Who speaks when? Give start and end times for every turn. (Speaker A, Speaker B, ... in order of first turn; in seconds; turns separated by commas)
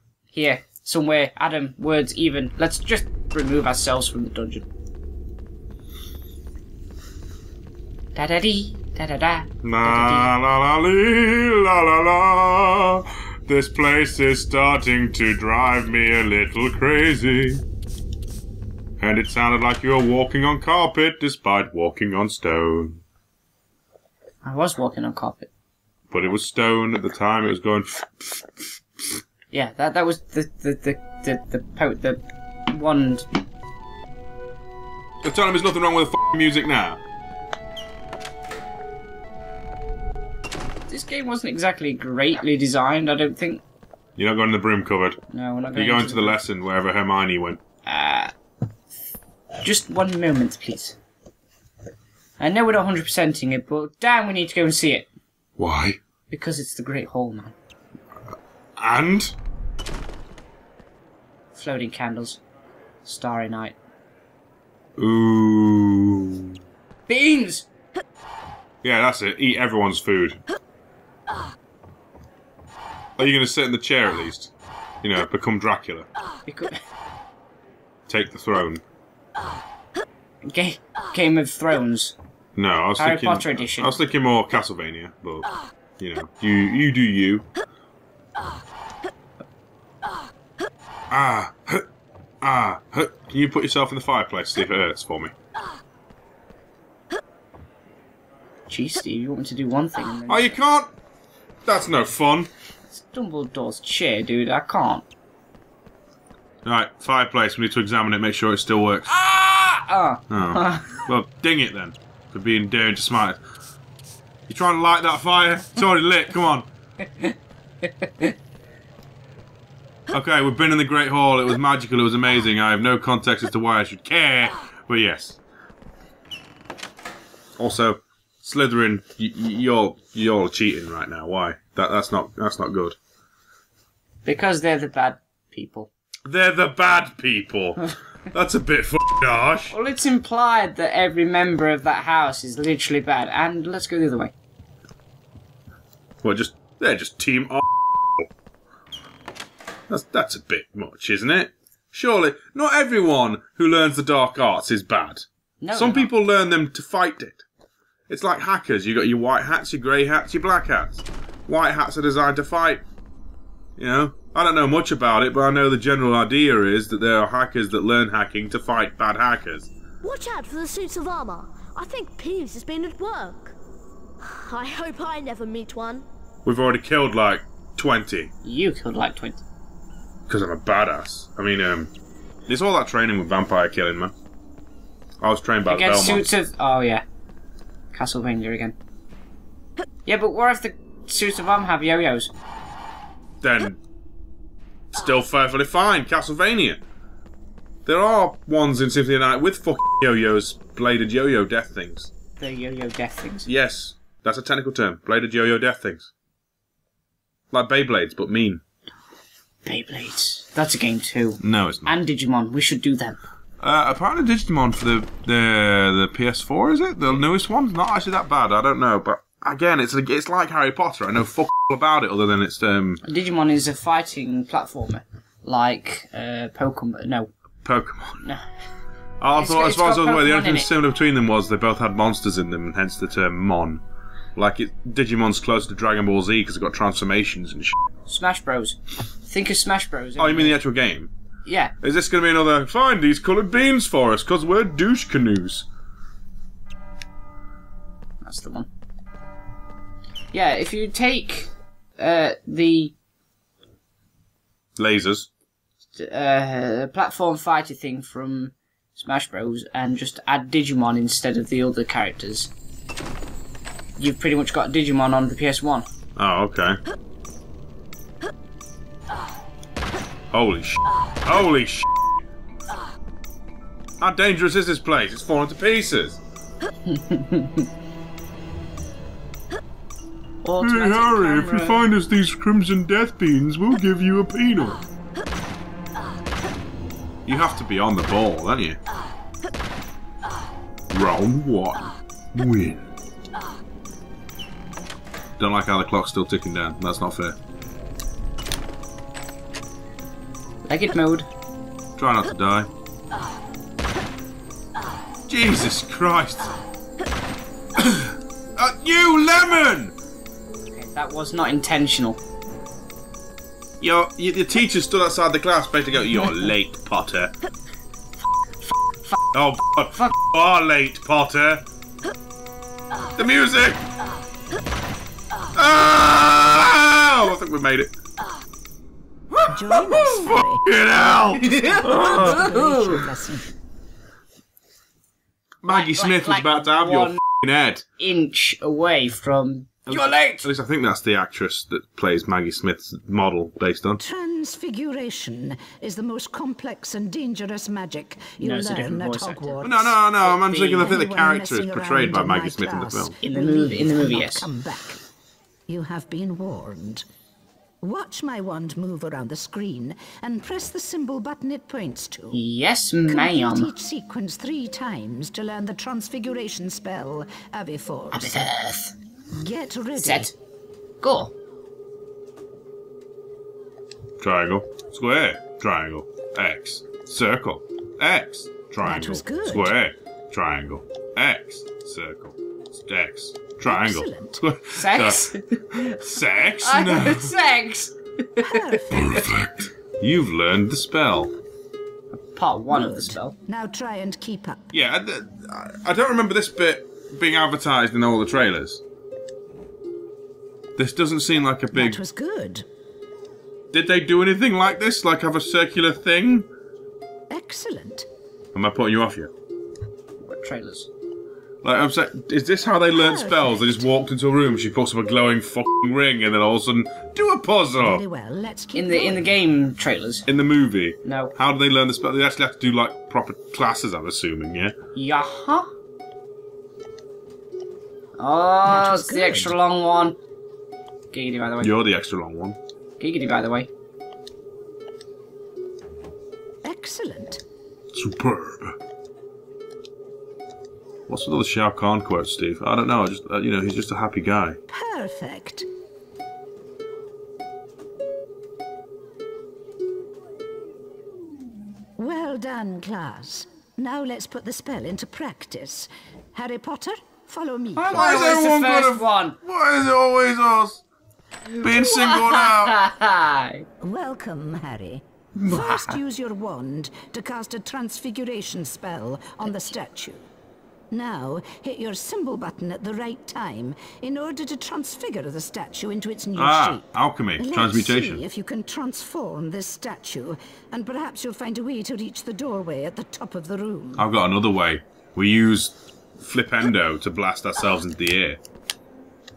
Speaker A: 0.3-4.7, Speaker A: 8.1-10.3, Speaker B: 9.6-17.6, Speaker B: 19.0-23.0, Speaker A: 24.4-25.5, Speaker B: 26.1-28.1, Speaker A: 29.5-33.3, Speaker B: 35.2-37.0, Speaker A: 40.9-43.6, Speaker B: 44.2-45.2, Speaker A: 45.3-46.4, Speaker B: 45.7-47.6, Speaker A: 47.8-48.3, Speaker A: 49.6-51.0, Speaker A: 52.4-55.1, Speaker B: 55.6-56.0, Speaker A: 56.3-57.5, Speaker B: 58.8-59.3, Speaker A: 61.5-62.4, Speaker A: 63.0-63.8, Speaker B: 65.0-66.5, Speaker A: 67.1-67.7, Speaker B: 68.8-70.4, Speaker B: 73.2-74.5, Speaker B: 75.0-76.1, Speaker A: 76.5-76.8, Speaker B: 78.1-78.8, Speaker A: 80.4-82.1, Speaker B: 82.5-87.5, Speaker A: 83.0-83.9, Speaker B: 91.1-91.8, Speaker B: 92.4-95.3, Speaker A: 98.7-100.5, Speaker B: 100.3-100.9, Speaker B: 101.7-102.5, Speaker A: 102.9-105.0, Speaker B: 106.6-109.1, Speaker A: 109.1-111.0, Speaker B: 110.3-113.4, Speaker B: 114.5-116.7, Speaker A: 117.2-118.3, Speaker B: 120.1-125.4, Speaker B: 127.6-133.0, Speaker A: 134.2-135.9, Speaker B: 136.2-139.7, Speaker A: 139.7-144.3, Speaker B: 146.2-148.3, Speaker B: 149.9-157.4, Speaker A: 155.6-156.1, Speaker B: 158.1-162.8, Speaker B: 163.8-169.7, Speaker C: 170.0-173.6, Speaker C: 174.2-176.1, Speaker B: 176.4-178.3, Speaker A: 178.4-179.4, Speaker B: 180.3-181.9, Speaker B: 182.5-184.1, Speaker B: 185.2-186.3, Speaker A: 185.7-187.0, Speaker A: 187.9-188.7, Speaker A: 190.1-192.3, Speaker B: 193.4-193.8, Speaker B: 194.9-196.8, Speaker B: 197.8-202.1, Speaker A: 202.4-203.5, Speaker B: 203.5-206.1, Speaker B: 207.5-208.6, Speaker A: 209.6-213.2, Speaker B: 211.4-211.9, Speaker B: 213.6-223.0, Speaker A: 223.0-227.3, Speaker B: 227.6-228.2, Speaker B: 229.2-233.8, Speaker A: 229.3-230.7, Speaker B: 234.3-237.8, Speaker A: 238.1-240.6, Speaker B: 240.2-241.1, Speaker A: 241.4-241.7, Speaker B: 241.8-245.7, Speaker A: 248.2-248.7, Speaker A: 250.3-252.9, Speaker B: 254.8-255.3, Speaker A: 255.9-262.5, Speaker A: 264.0-265.9, Speaker B: 266.1-266.8, Speaker B: 270.3-271.9, Speaker B: 274.0-276.2, Speaker A: 276.9-277.7, Speaker A: 280.4-281.8, Speaker B: 280.6-284.8, Speaker B: 287.2-288.8, Speaker B: 290.9-292.8, Speaker B: 295.4-297.4, Speaker A: 300.6-301.3, Speaker B: 302.0-302.7, Speaker B: 305.3-306.6, Speaker B: 307.8-309.9, Speaker A: 310.7-312.2, Speaker B: 313.8-317.3, Speaker B: 319.3-321.6, Speaker B: 323.2-323.8, Speaker B: 325.6-327.9, Speaker B: 329.4-332.5, Speaker D: 329.4-333.5, Speaker A: 331.4-333.0, Speaker B: 335.6-337.8, Speaker A: 335.7-337.2, Speaker A: 338.0-340.5, Speaker B: 339.9-344.0, Speaker D: 344.0-350.0, Speaker A: 348.4-349.6, Speaker B: 349.6-353.1, Speaker A: 350.2-350.9, Speaker D: 350.7-355.0, Speaker A: 353.2-354.5, Speaker D: 355.7-357.1, Speaker D: 357.8-362.4, Speaker A: 362.3-363.7, Speaker D: 363.1-368.4, Speaker A: 368.1-368.9, Speaker D: 369.3-370.3, Speaker A: 370.0-370.3, Speaker A: 371.0-371.3, Speaker B: 374.2-387.3, Speaker D: 378.8-379.8, Speaker D: 383.6-384.4, Speaker A: 384.7-389.4, Speaker D: 388.4-389.3, Speaker B: 388.9-391.3, Speaker A: 392.1-393.3, Speaker D: 392.7-394.7, Speaker B: 394.7-398.8, Speaker B: 400.8-402.0, Speaker D: 401.7-402.6, Speaker B: 403.7-406.5, Speaker D: 407.3-408.1, Speaker B: 408.5-409.3, Speaker A: 410.2-410.9, Speaker B: 411.6-418.0, Speaker D: 412.9-413.8, Speaker D: 417.8-419.3, Speaker A: 418.7-420.2, Speaker B: 420.3-424.7, Speaker A: 421.0-421.3, Speaker A: 424.9-425.7, Speaker A: 428.2-430.2, Speaker D: 428.6-429.6, Speaker A: 431.1-431.8, Speaker B: 431.6-432.6, Speaker A: 433.0-433.7, Speaker D: 436.6-437.4, Speaker B: 437.9-438.8, Speaker B: 441.1-444.6, Speaker D: 444.7-445.7, Speaker D: 452.0-458.4, Speaker A: 457.8-459.4, Speaker B: 457.9-460.8, Speaker A: 461.5-463.6, Speaker B: 461.6-462.8, Speaker D: 463.8-470.2, Speaker A: 465.4-465.9, Speaker D: 470.9-476.9, Speaker B: 476.4-478.2, Speaker D: 477.4-484.1, Speaker B: 484.0-488.4